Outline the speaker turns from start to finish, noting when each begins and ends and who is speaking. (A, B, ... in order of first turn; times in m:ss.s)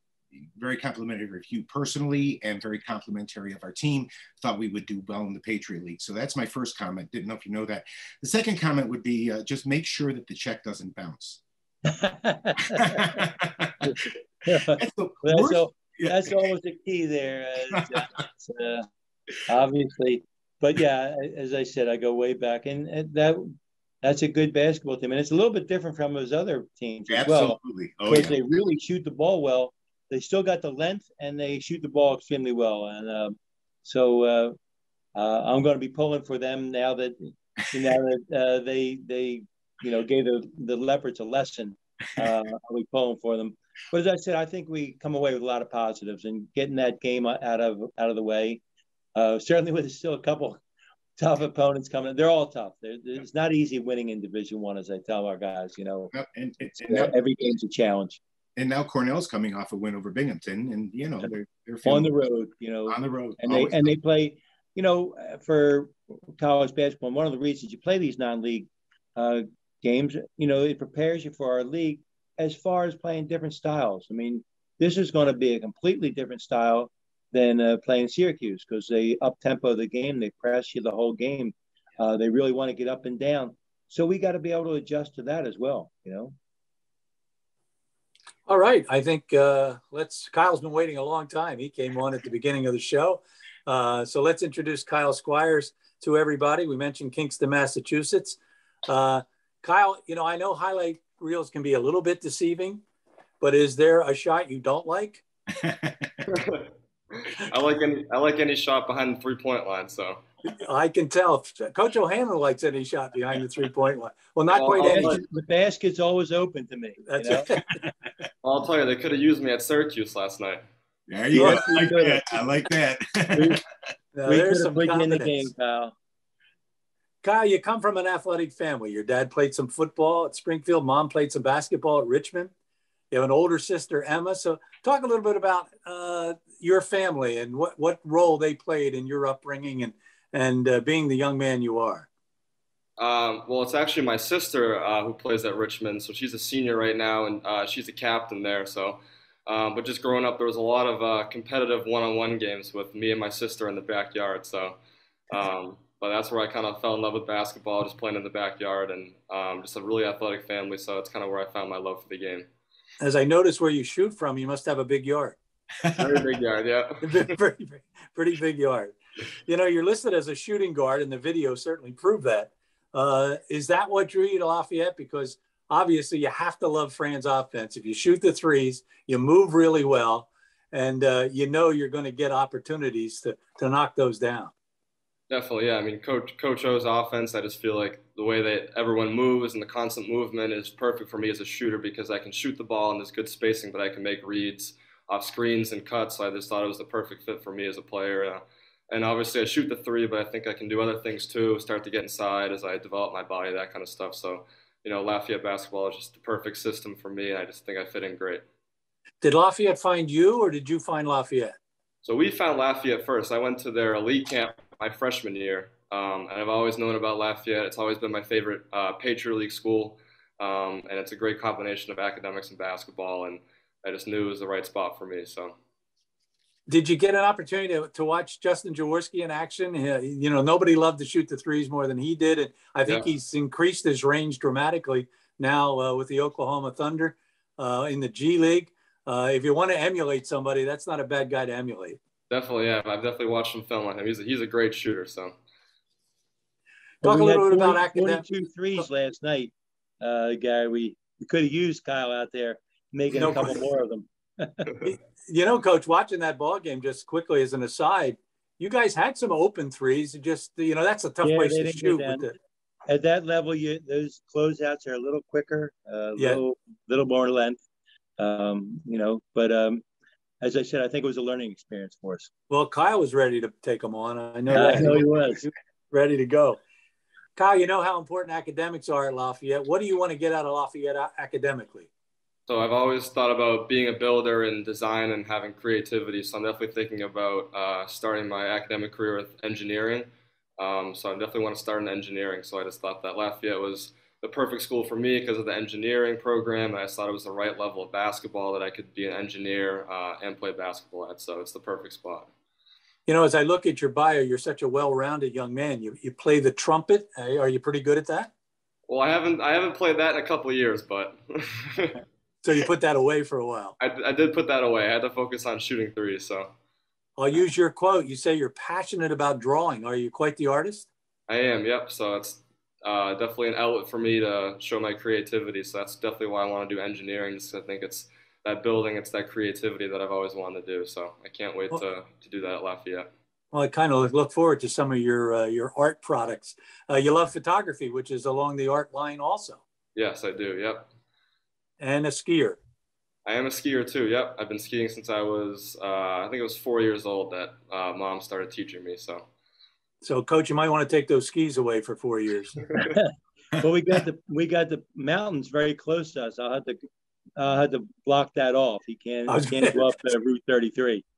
0:00.6-0:11.4 A
0:11.9-0:13.2 B
0:13.0-0:13.6 A
0:13.8-0:18.8 B
0:14.8-0:16.4 A
0:19.5-0:23.4 B
0:24.0-0:34.5 B
0:27.1-0:28.4 A
0:35.1-0:48.6 B
0:49.1-0:50.6 B
0:51.2-0:56.1 B
0:56.1-0:57.1 A
0:56.8-0:58.2 B
0:58.6-1:02.1 A
1:01.8-1:26.3 B
1:02.9-1:03.9 A
1:28.4-1:42.8 C
1:43.4-1:45.2 C
1:45.6-1:46.1 A
1:47.3-1:50.2 D
1:50.5-1:55.2 C
1:54.5-1:55.2 D
1:54.8-1:57.5 B
1:57.1-1:57.8 C
1:58.4-2:00.6 D
2:01.1-2:03.6 A
2:01.3-2:02.4 B
2:01.3-2:01.8 C
2:03.3-2:03.6 B
2:04.1-2:05.5 C
2:04.2-2:05.9 B
2:07.2-2:12.5 C
2:13.1-2:22.1 C
2:23.0-2:34.8 D
2:35.3-2:42.5 D
2:43.0-2:45.4 C
2:46.0-2:47.2 D
2:47.0-2:48.9 C
2:49.5-3:04.5 C
3:05.3-3:28.5 D
3:29.2-3:31.6 C
3:32.0-3:45.6 D
3:46.7-4:02.0 C
4:02.3-4:05.4 D
4:07.0-4:08.2 C
4:07.0-4:14.7 B
4:13.1-4:13.6 C
4:14.8-4:22.3 C
4:21.2-4:22.3 B
4:22.9-4:27.6 B
4:26.2-4:26.4 C
4:28.2-4:29.8 B
4:30.4-4:32.3 B
4:32.5-4:36.6 C
4:34.5-4:35.4 B
4:37.4-4:41.9 C
4:42.5-5:02.3 D
5:03.1-5:08.3 C
5:08.9-5:12.0 D
5:12.4-5:13.8 C
5:13.8-5:16.5 D
5:17.2-5:20.9 C
5:21.3-5:33.1 D
5:33.5-5:39.6 C
5:39.9-5:40.9 D
5:41.8-5:42.6 C
5:43.2-5:49.3 D
5:50.0-5:52.6 C
5:52.8-5:56.8 B
5:57.4-6:01.0 B
5:59.3-5:59.9 C